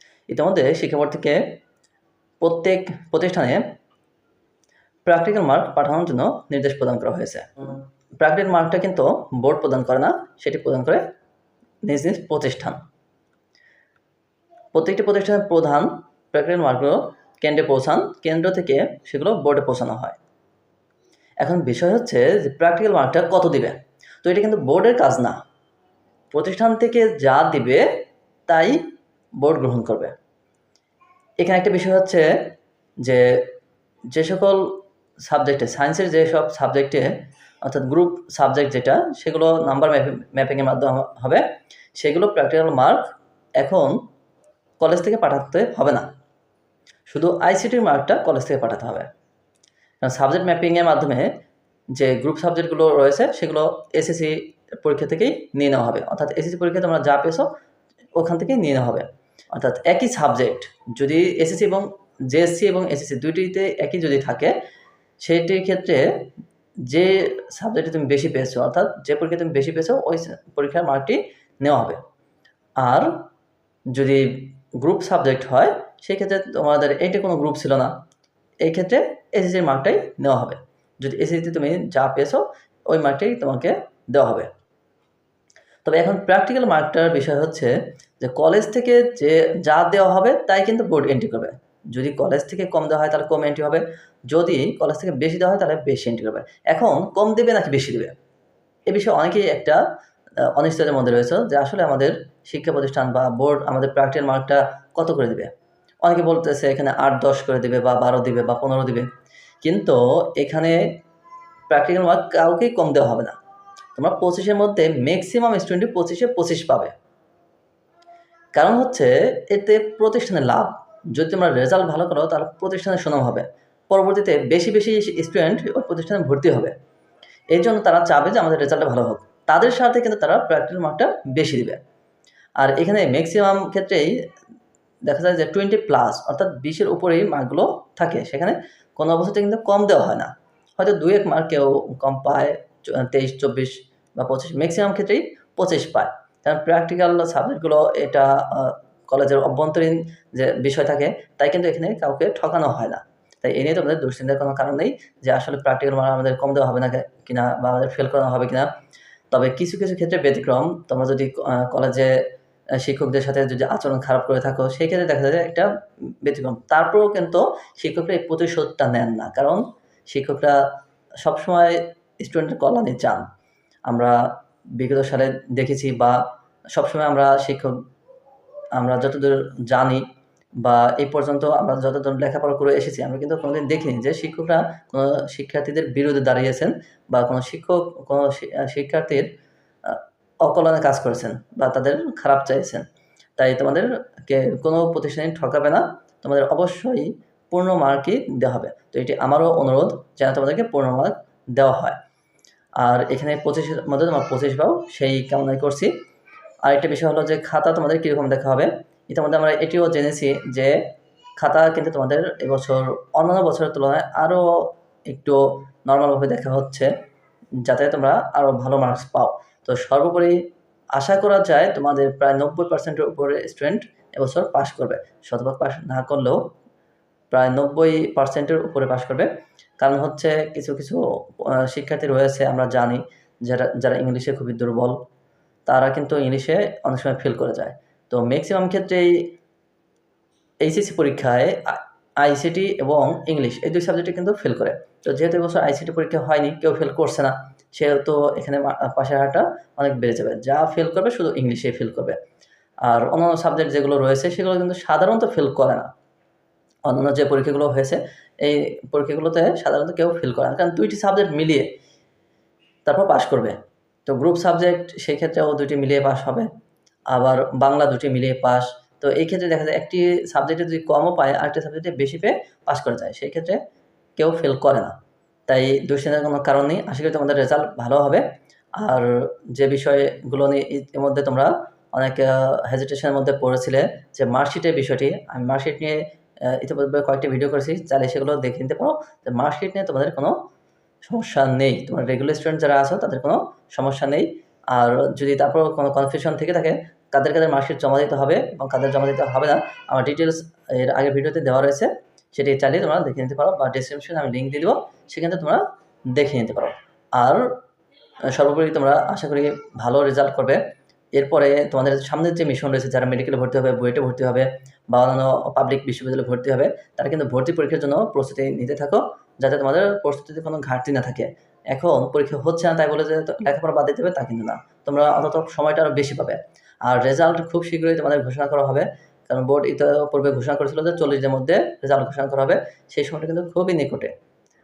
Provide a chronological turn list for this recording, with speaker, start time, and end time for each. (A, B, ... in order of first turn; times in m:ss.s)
0:00.3-0:01.6 A
0:02.4-0:03.6 A
0:05.0-0:07.5 A
0:08.2-0:11.0 A
0:11.8-0:12.8 A
0:14.7-0:20.2 A
0:21.4-0:25.4 A
0:26.3-0:27.8 A
0:28.5-0:28.8 A
0:29.4-0:30.1 A
0:31.4-0:32.3 A
0:33.0-0:33.4 A
0:34.1-0:41.4 A
0:42.0-0:44.0 A
0:44.8-0:46.1 A
0:47.1-0:49.1 A
0:50.0-0:51.3 A
0:51.9-0:57.5 A
0:58.2-1:04.5 A
1:05.2-1:06.2 A
1:06.8-1:12.0 A
1:12.8-1:13.2 A
1:13.9-1:17.9 A
1:18.6-1:24.5 A
1:25.8-1:38.1 A
1:38.9-1:39.8 A
1:40.5-1:45.5 A
1:46.0-1:49.1 A
1:49.6-1:51.0 A
1:51.7-1:53.4 A
1:53.9-1:56.9 A
1:58.5-2:06.7 A
2:07.5-2:11.8 A
2:12.6-2:14.1 A
2:15.0-2:38.7 A
2:39.3-2:42.1 A
2:42.8-2:45.7 A
2:46.2-2:50.6 A
2:51.2-2:53.3 A
2:53.9-2:56.2 A
2:56.7-2:57.8 A
2:58.7-3:00.0 A
3:00.6-3:09.3 A
3:09.8-3:12.8 A
3:13.4-3:22.0 A
3:22.8-3:25.9 A
3:26.6-3:30.8 A
3:31.4-3:36.9 A
3:37.6-3:40.4 A
3:40.9-3:46.4 A
3:47.3-3:49.3 A
3:49.8-3:55.0 A
3:55.6-3:59.3 A
4:00.6-4:12.2 A
4:12.8-4:15.9 A
4:16.8-4:21.7 A
4:22.8-4:26.5 A
4:27.1-4:33.6 A
4:34.2-4:35.0 A
4:35.5-4:38.2 A
4:38.8-4:50.4 A
4:51.0-5:07.5 A
5:08.3-5:10.6 A
5:11.1-5:34.1 A